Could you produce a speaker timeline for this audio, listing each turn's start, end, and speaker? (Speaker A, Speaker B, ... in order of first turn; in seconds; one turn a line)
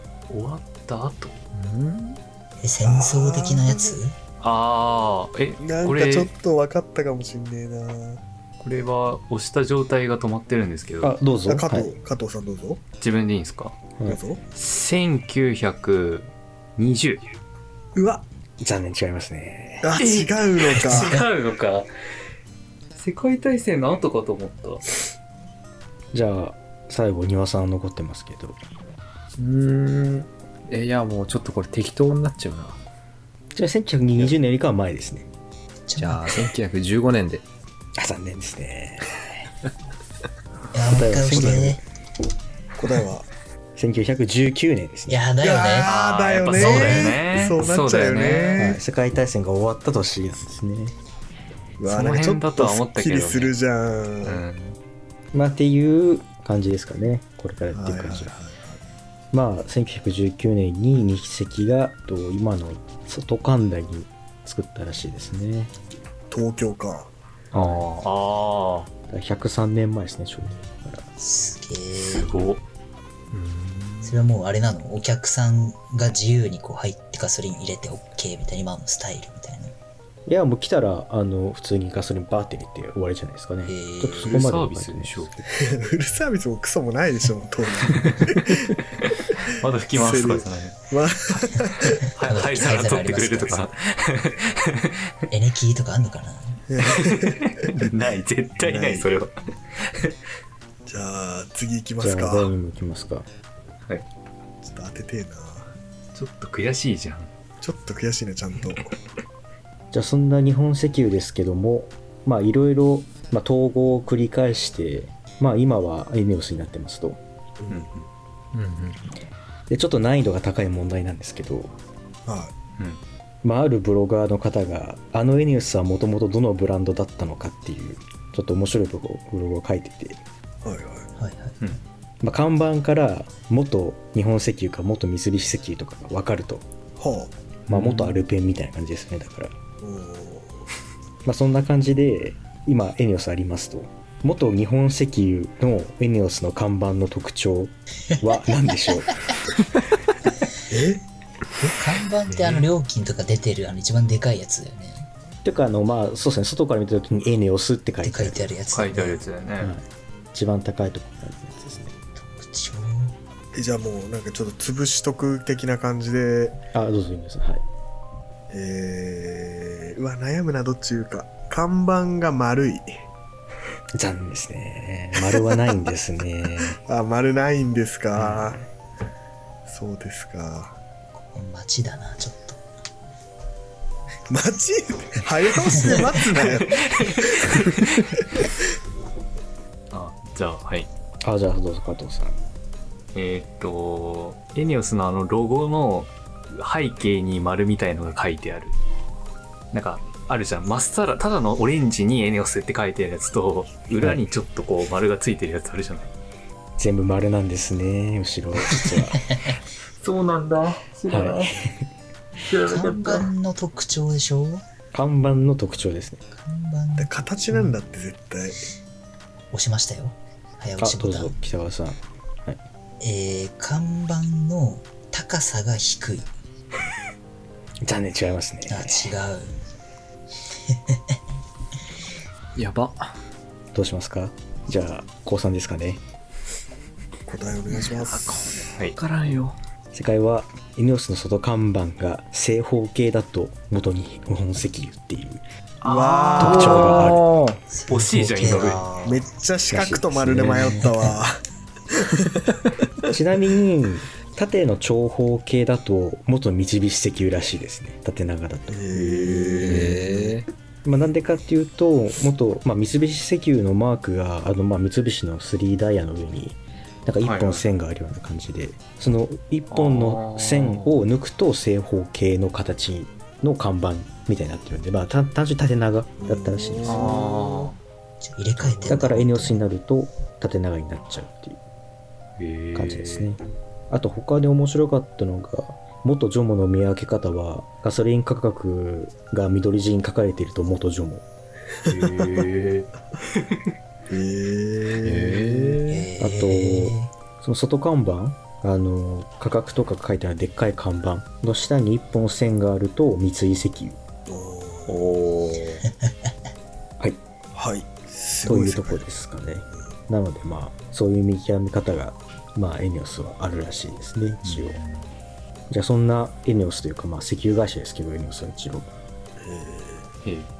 Speaker A: 0.3-1.4
Speaker B: 1.5-2.2
Speaker C: 2.6-4.1
Speaker D: 2.8-4.0
Speaker A: 4.4-6.3
Speaker D: 5.6-8.2
Speaker A: 8.6-11.1
Speaker E: 11.0-11.9
Speaker D: 11.5-12.8
Speaker A: 13.0-13.8
Speaker D: 14.0-14.4
Speaker A: 14.5-17.3
Speaker D: 17.9-18.2
Speaker E: 18.6-19.9
Speaker D: 19.8-21.2
Speaker A: 19.9-21.9
Speaker A: 22.9-24.8
Speaker E: 26.1-28.6
Speaker B: 29.4-32.8
Speaker E: 33.5-35.3
Speaker C: 35.9-36.5
Speaker B: 36.0-37.4
Speaker E: 38.0-39.5
Speaker C: 40.7-41.8
Speaker E: 40.8-41.8
Speaker D: 42.7-43.3
Speaker E: 43.8-45.2
Speaker C: 45.1-45.9
Speaker D: 45.4-48.8
Speaker A: 45.8-48.7
Speaker C: 46.5-47.2
Speaker E: 48.5-50.9
Speaker D: 51.8-54.4
Speaker A: 51.9-53.5
Speaker A: 54.2-54.8
Speaker E: 55.3-58.3
Speaker D: 57.7-58.8
Speaker E: 59.3-65.7
Speaker D: 66.3-67.1
Speaker A: 67.5-68.9
Speaker E: 67.5-67.8
Speaker E: 69.1-71.1
Speaker C: 71.2-72.3
Speaker A: 72.0-72.6
Speaker B: 73.3-74.1
Speaker C: 74.0-79.7
Speaker E: 80.2-85.4
Speaker C: 83.6-84.4
Speaker A: 84.1-85.4
Speaker D: 85.6-88.7
Speaker A: 89.4-90.8
Speaker D: 89.5-92.0
Speaker A: 92.1-95.1
Speaker C: 92.2-93.7
Speaker C: 95.3-96.6
Speaker D: 96.7-97.9
Speaker A: 96.8-100.2
Speaker D: 98.6-99.1
Speaker D: 100.9-102.5
Speaker E: 102.0-103.3
Speaker D: 104.6-105.7
Speaker A: 106.1-107.3
Speaker D: 107.6-109.0
Speaker E: 109.9-117.2
Speaker D: 117.6-117.9
Speaker A: 117.7-118.0
Speaker B: 118.5-119.1
Speaker E: 119.7-121.7
Speaker D: 122.2-122.5
Speaker E: 123.4-130.2
Speaker D: 130.6-131.1
Speaker C: 131.2-131.6
Speaker E: 132.2-136.7
Speaker D: 137.0-137.3
Speaker A: 137.7-138.2
Speaker E: 137.7-139.5
Speaker D: 139.8-140.6
Speaker E: 141.2-149.2
Speaker D: 150.7-151.0
Speaker C: 151.6-155.1
Speaker A: 152.3-152.7
Speaker E: 155.4-158.5
Speaker C: 158.0-159.2
Speaker A: 158.7-159.7
Speaker E: 159.6-161.9
Speaker C: 162.2-163.2
Speaker D: 163.5-166.6
Speaker E: 166.7-167.6
Speaker D: 168.5-172.9
Speaker E: 173.9-176.8
Speaker D: 175.2-175.7
Speaker D: 176.8-178.6
Speaker E: 178.2-178.6
Speaker D: 179.7-180.8
Speaker C: 181.1-182.6
Speaker D: 184.3-187.6
Speaker A: 187.0-188.1
Speaker A: 189.9-190.9
Speaker E: 191.2-192.4
Speaker A: 193.1-198.8
Speaker A: 199.7-206.1
Speaker E: 204.0-204.2
Speaker E: 206.8-209.2
Speaker B: 210.0-211.5
Speaker E: 211.1-211.8
Speaker B: 212.4-213.3
Speaker C: 212.7-214.6
Speaker E: 214.9-216.2
Speaker C: 216.3-217.7
Speaker D: 217.0-218.7
Speaker C: 219.5-221.3
Speaker E: 220.8-222.6
Speaker C: 223.0-226.3
Speaker E: 227.8-229.1
Speaker C: 228.7-229.6
Speaker C: 230.7-231.1
Speaker B: 232.6-233.2
Speaker E: 233.7-236.0
Speaker D: 237.2-238.7
Speaker B: 237.7-239.6
Speaker E: 239.9-245.4
Speaker D: 245.8-247.0
Speaker A: 245.8-247.2
Speaker B: 246.4-247.6
Speaker E: 246.4-247.2
Speaker C: 247.7-249.3
Speaker A: 247.9-248.8
Speaker D: 249.0-251.4
Speaker E: 249.7-251.1
Speaker D: 251.9-252.2
Speaker E: 253.1-260.0
Speaker D: 258.7-260.3
Speaker B: 259.6-260.5
Speaker E: 260.8-277.2
Speaker A: 267.2-267.7
Speaker A: 269.7-270.9
Speaker D: 276.2-277.7
Speaker A: 276.8-277.8
Speaker C: 278.2-279.6
Speaker E: 278.9-281.6
Speaker A: 282.4-283.3
Speaker E: 282.7-291.2
Speaker A: 291.9-292.9
Speaker D: 294.1-295.8
Speaker B: 295.0-296.1
Speaker C: 295.9-297.1
Speaker E: 296.2-304.0
Speaker D: 304.3-305.2
Speaker A: 304.9-305.8
Speaker D: 307.5-309.0
Speaker E: 308.4-314.8
Speaker A: 314.4-315.1
Speaker E: 315.7-318.9
Speaker D: 319.4-320.1
Speaker A: 320.2-320.5